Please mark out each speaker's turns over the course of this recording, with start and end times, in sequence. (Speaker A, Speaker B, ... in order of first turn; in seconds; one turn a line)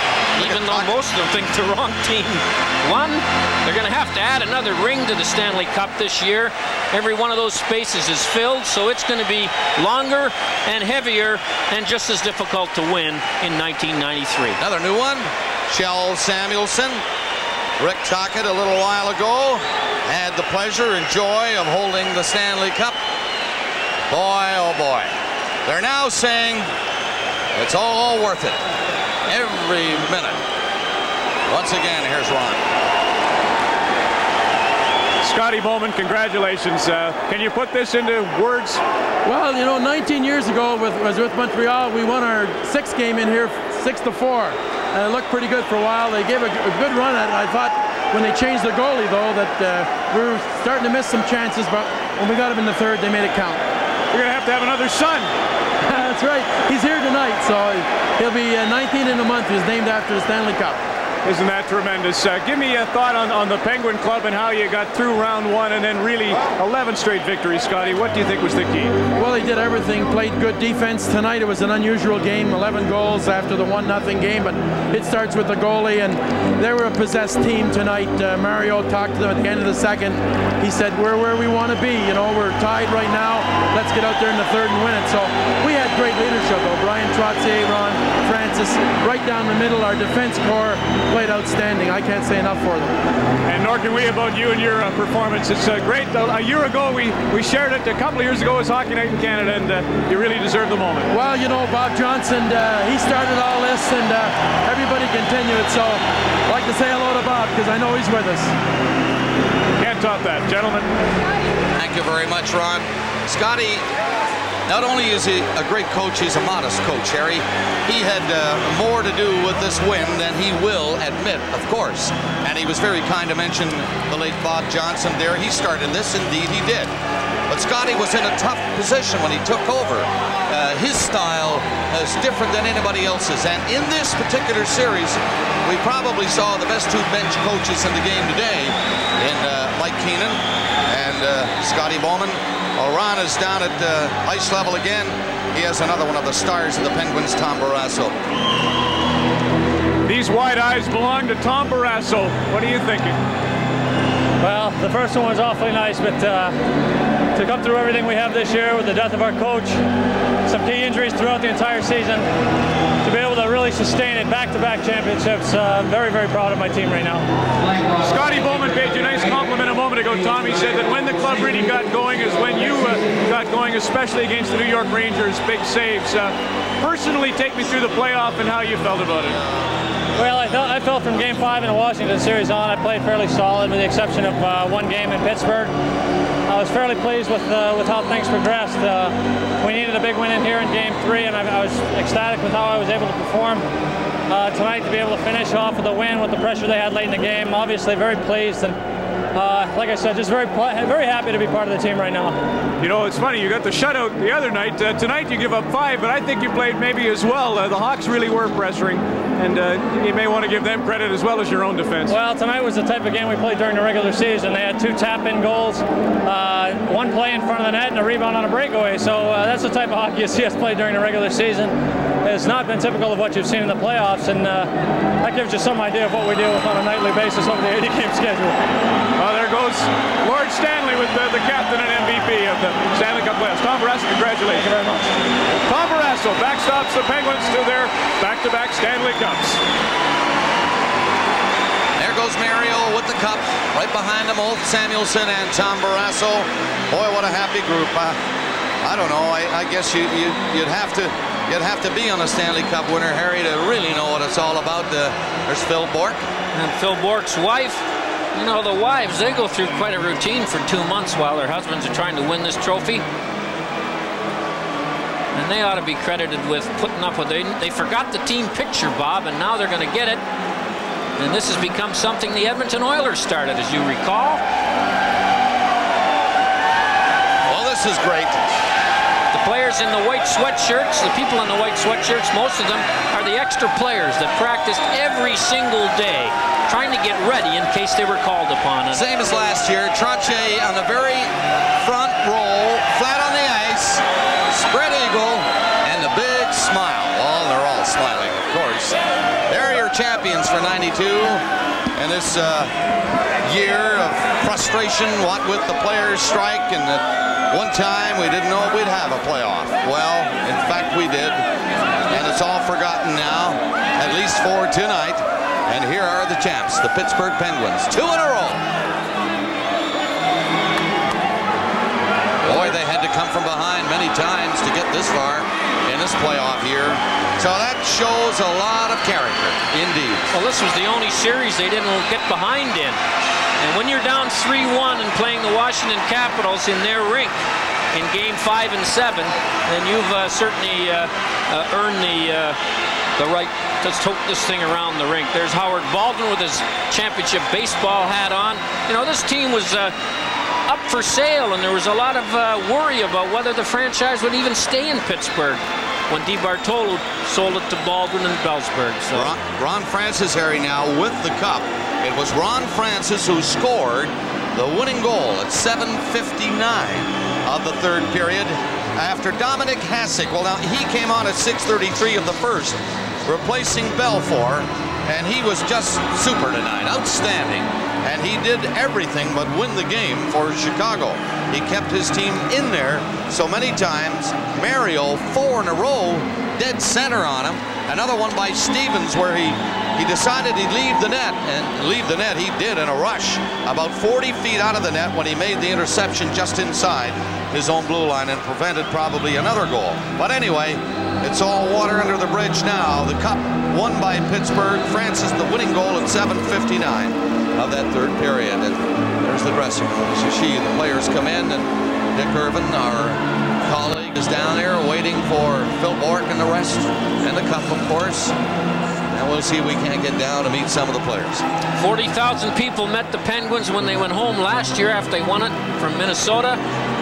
Speaker A: 0.4-14.6
Speaker B: 0.4-0.9
Speaker B: 14.6-17.0
Speaker B: 17.8-23.0
Speaker B: 24.1-25.1
Speaker B: 25.6-26.7
Speaker B: 27.5-28.6
Speaker B: 29.3-30.4
Speaker B: 31.5-32.6
Speaker C: 35.2-38.8
Speaker D: 39.2-53.6
Speaker C: 54.1-55.3
Speaker D: 55.9-60.8
Speaker C: 61.2-69.0
Speaker D: 69.2-93.0
Speaker C: 93.5-101.1
Speaker D: 101.1-108.5
Speaker C: 109.8-110.9
Speaker B: 111.8-113.8
Speaker B: 114.7-126.9
Speaker B: 127.5-148.2
Speaker C: 150.0-153.2
Speaker E: 154.4-156.6
Speaker E: 157.3-159.8
Speaker E: 160.5-162.3
Speaker E: 163.0-167.3
Speaker C: 168.0-179.4
Speaker E: 180.2-185.7
Speaker E: 186.5-193.7
Speaker E: 194.3-198.8
Speaker E: 199.3-202.4
Speaker C: 202.8-212.2
Speaker E: 212.1-228.8
Speaker C: 229.2-235.0
Speaker C: 235.6-239.6
Speaker B: 242.0-248.2
Speaker B: 248.8-256.3
Speaker A: 256.5-263.0
Speaker A: 265.4-270.2
Speaker A: 271.2-274.4
Speaker B: 277.5-278.4
Speaker A: 279.3-289.0
Speaker B: 288.9-301.4
Speaker B: 302.0-302.7
Speaker B: 303.4-311.4
Speaker B: 312.1-318.6
Speaker B: 322.4-330.3
Speaker A: 330.3-333.0
Speaker A: 333.6-337.4
Speaker A: 337.9-342.6
Speaker A: 343.2-349.9
Speaker A: 350.7-359.4
Speaker B: 359.1-418.4
Speaker B: 419.1-421.4
Speaker A: 421.8-426.6